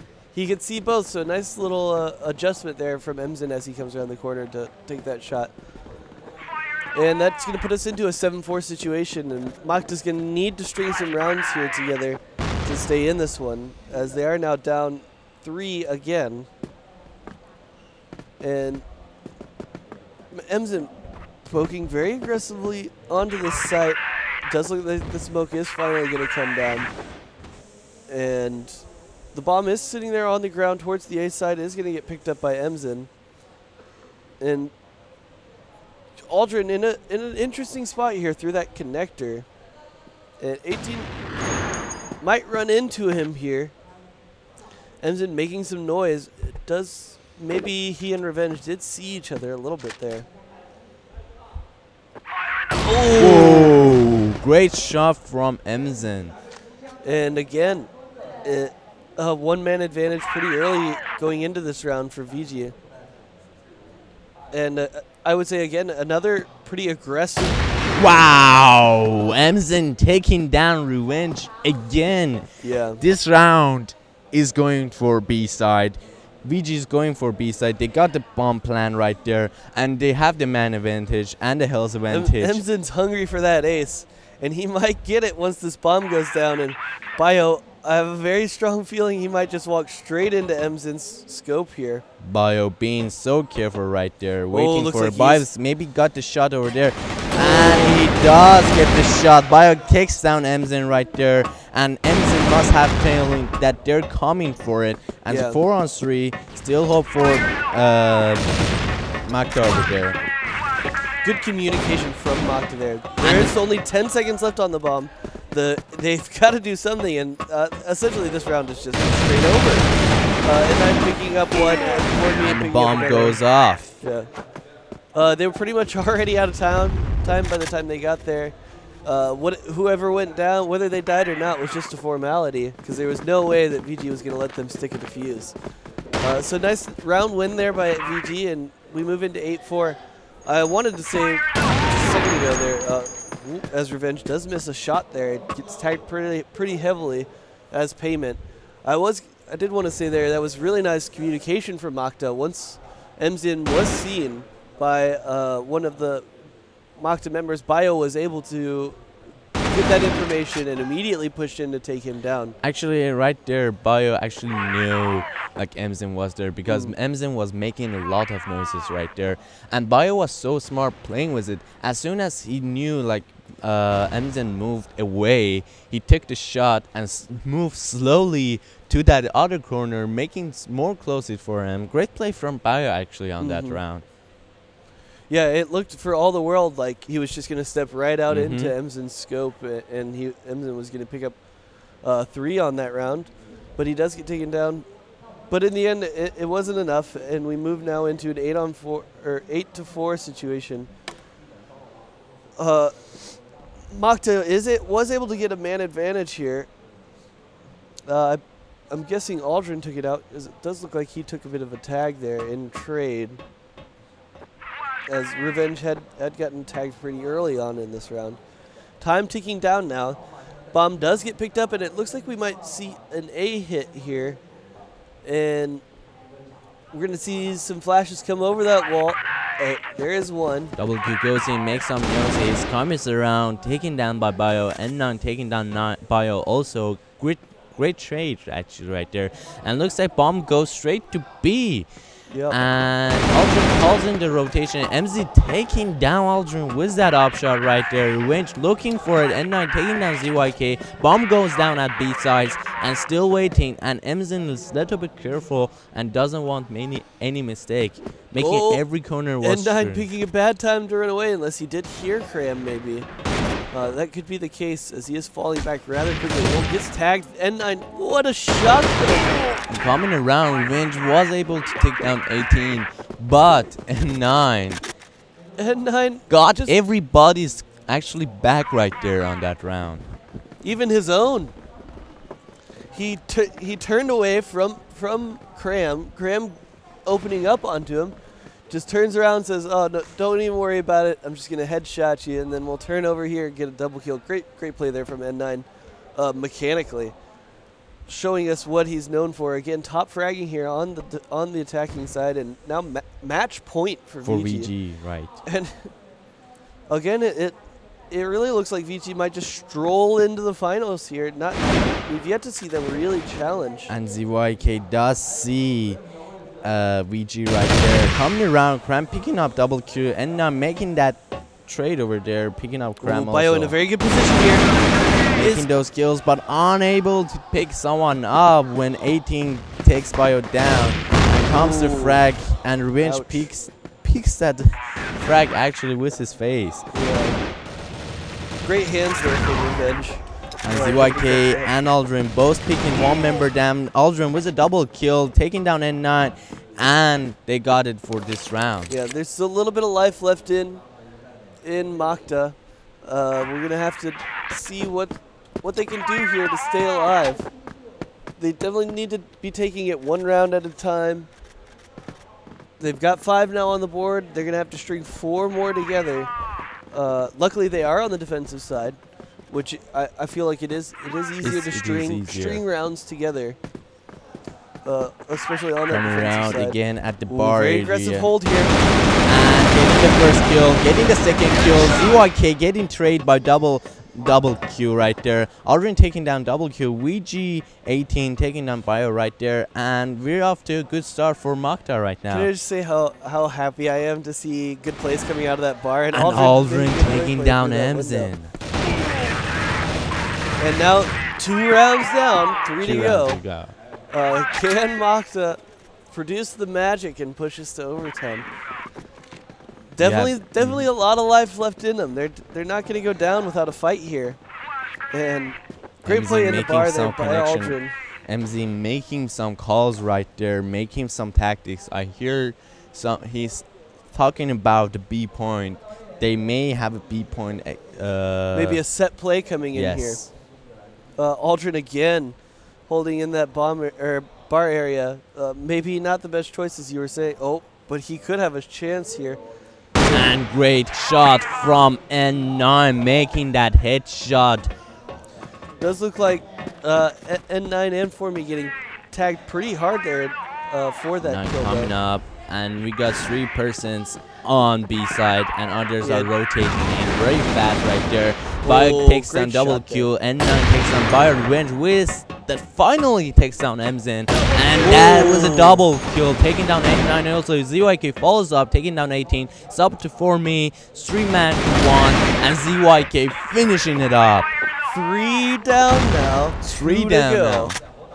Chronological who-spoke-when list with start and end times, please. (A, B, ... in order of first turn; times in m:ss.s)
0:00.3-0:05.5 A
0:06.9-0:16.5 A
0:18.4-0:18.8 A
0:20.3-0:20.9 A
0:21.4-0:26.9 A
0:28.1-0:33.1 A
0:34.4-0:34.7 A
0:36.2-0:39.5 A
0:40.4-0:41.1 A
0:42.2-0:43.7 A
0:45.0-0:50.3 A
0:52.8-0:53.9 A
0:53.2-0:56.4 B
0:57.0-0:57.9 A
0:58.4-1:02.8 A
1:04.5-1:07.6 A
1:08.0-1:12.5 B
1:12.6-1:13.0 A
1:13.0-1:22.6 B
1:22.1-1:32.0 A
1:32.2-1:48.6 B
1:34.5-1:35.4 A
1:37.4-1:38.0 A
1:45.3-1:45.6 A
1:49.2-1:50.2 B
1:51.2-1:59.9 A
1:53.2-1:53.5 B
2:00.4-2:03.4 A
2:02.4-2:04.0 B
2:04.0-2:04.3 A
2:05.1-2:15.6 A
2:16.2-2:36.3 A
2:37.0-2:39.0 A
2:39.7-2:42.6 A
2:42.6-3:04.0 B
2:46.7-2:46.9 A
3:03.4-3:03.8 A
3:05.3-3:11.4 A
3:08.3-3:08.8 B
3:12.0-3:14.9 A
3:15.5-3:20.9 A
3:22.6-3:23.0 A
3:23.9-3:26.7 A
3:28.1-3:33.4 A
3:35.1-3:38.4 A
3:39.0-3:40.2 A
3:40.7-3:44.4 A
3:45.2-3:45.8 A
3:46.9-3:50.7 A
3:50.8-4:01.9 B
4:02.3-4:02.6 A
4:02.5-4:20.1 B
4:18.4-4:18.8 A
4:19.4-4:23.1 A
4:23.7-4:29.5 A
4:29.7-4:34.8 B
4:35.6-4:36.8 A
4:36.3-4:40.1 B
4:40.6-4:41.6 A
4:42.9-4:48.2 A
4:48.7-4:57.2 A
4:58.1-5:04.7 A
5:04.2-5:05.4 B
5:05.5-5:05.9 A
5:06.9-5:07.6 A
5:08.1-5:13.9 A
5:13.9-5:16.0 B
5:16.6-5:23.8 B
5:23.0-5:24.7 A
5:25.3-5:25.7 A
5:25.4-5:36.9 B
5:31.5-5:32.2 A
5:33.0-5:33.5 A
5:36.9-5:37.4 A
5:38.6-5:41.7 A
5:40.6-5:49.0 B
5:48.9-5:50.8 A
5:51.6-5:57.5 A
5:58.4-6:01.3 A
6:02.8-6:06.3 A
6:06.9-6:09.0 A
6:09.5-6:13.6 A
6:11.4-6:12.6 B
6:14.8-6:18.8 A
6:15.9-6:18.3 B
6:19.3-6:32.5 B
6:32.3-6:38.3 A
6:36.1-6:38.5 B
6:40.6-6:43.4 A
6:42.8-6:43.7 B
6:44.1-6:45.6 A
6:46.1-6:48.5 A
6:49.9-6:54.4 A
6:50.0-6:50.9 B
6:55.1-6:57.9 A
6:56.0-7:08.8 B
7:08.5-7:10.2 A
7:09.7-7:10.3 B
7:11.2-7:12.4 A
7:12.9-7:19.4 A
7:20.0-7:20.3 A
7:20.1-7:24.7 B
7:25.8-7:31.9 A
7:31.2-7:54.5 B
7:36.0-7:36.3 A
7:38.6-7:40.1 A
7:44.8-7:45.8 A
7:54.8-7:57.8 A
7:56.6-7:57.8 B